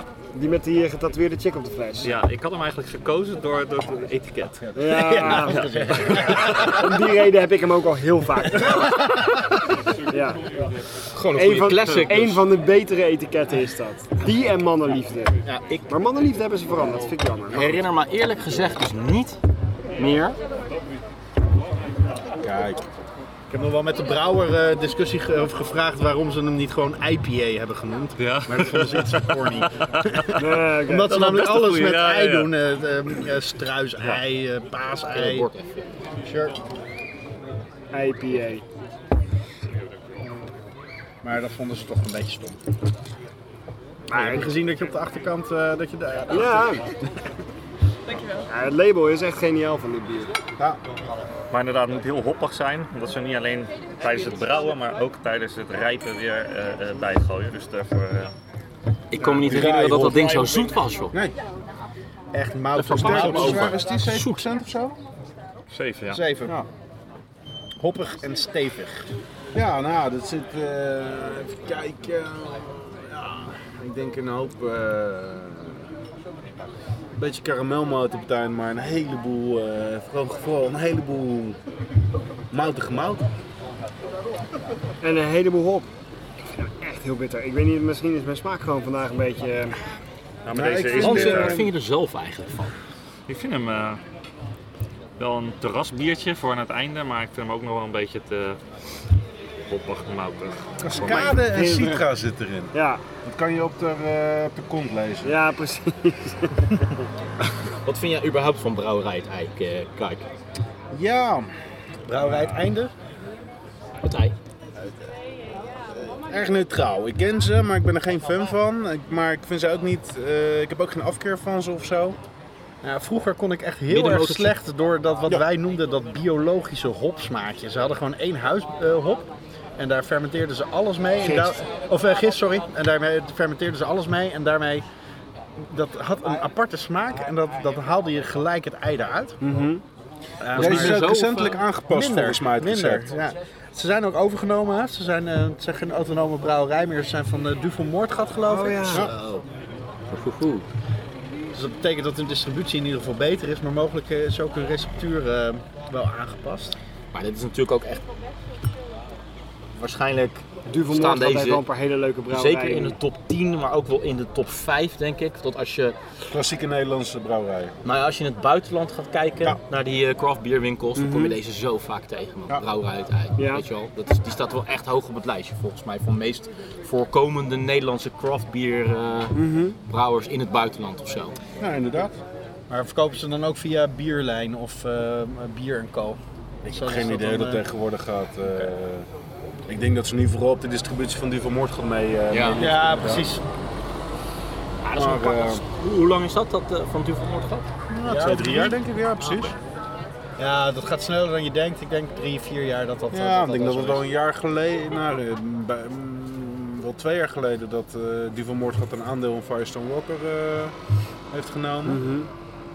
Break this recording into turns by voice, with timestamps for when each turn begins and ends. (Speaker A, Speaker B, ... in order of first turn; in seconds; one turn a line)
Speaker A: 0.3-2.1
Speaker B: 2.0-6.8
Speaker A: 4.8-8.9
Speaker C: 4.9-6.6
Speaker B: 8.7-9.0
Speaker A: 10.1-10.5
Speaker D: 11.1-12.4
Speaker A: 11.3-17.8
Speaker D: 15.5-15.8
Speaker D: 17.5-19.4
Speaker D: 20.0-20.4
Speaker E: 22.4-22.9
Speaker C: 23.5-35.5
Speaker B: 28.2-30.3
Speaker A: 30.4-31.2
Speaker B: 31.0-32.5
Speaker D: 35.1-35.9
Speaker C: 36.2-36.5
Speaker A: 37.9-38.6
Speaker C: 41.2-42.6
Speaker A: 44.1-44.6
Speaker C: 44.1-46.9
Speaker A: 46.3-46.9
Speaker A: 48.5-50.3
Speaker B: 51.5-58.3
Speaker D: 59.1-61.1
Speaker E: 59.3-60.5
Speaker E: 61.1-61.4
Speaker C: 62.3-63.8
Speaker D: 62.8-64.4
Speaker E: 62.9-65.0
Speaker B: 65.7-66.3
Speaker C: 66.1-66.5
Speaker C: 67.8-69.1
Speaker E: 69.5-75.8
Speaker E: 77.1-81.6
Speaker E: 82.5-83.2
Speaker A: 85.0-85.9
Speaker A: 86.5-89.8
Speaker B: 90.5-91.6
Speaker E: 90.5-91.7
Speaker D: 91.0-92.7
Speaker B: 93.3-94.0
Speaker B: 95.2-98.6
Speaker B: 99.7-101.4
Speaker E: 100.8-105.4
Speaker A: 101.0-102.0
Speaker A: 102.7-103.0
Speaker A: 105.2-106.9
Speaker D: 107.8-110.3
Speaker E: 110.9-111.5
Speaker C: 112.1-112.9
Speaker D: 114.0-114.3
Speaker E: 115.9-122.2
Speaker C: 122.8-134.8
Speaker D: 123.9-124.5
Speaker A: 131.2-131.5
Speaker C: 135.6-139.4
Speaker A: 139.4-139.8
Speaker E: 140.4-143.1
Speaker C: 140.5-141.1
Speaker D: 140.5-141.7
Speaker C: 141.9-149.2
Speaker A: 148.4-149.1
Speaker D: 149.0-149.4
Speaker D: 150.1-150.7
Speaker C: 151.5-156.8
Speaker D: 157.1-158.0
Speaker D: 159.8-161.6
Speaker A: 160.7-162.9
Speaker D: 162.3-166.0
Speaker E: 166.3-167.8
Speaker D: 167.8-181.3
Speaker A: 170.9-171.3
Speaker A: 173.4-173.6
Speaker A: 179.3-179.8
Speaker E: 181.6-182.2
Speaker C: 182.7-187.6
Speaker E: 186.7-189.1
Speaker E: 189.7-193.3
Speaker D: 192.3-192.6
Speaker C: 192.6-193.4
Speaker D: 194.8-197.7
Speaker E: 194.9-195.6
Speaker E: 197.9-199.5
Speaker C: 198.0-198.8
Speaker C: 200.4-204.1
Speaker E: 203.1-210.7
Speaker E: 211.3-212.0
Speaker A: 211.8-212.3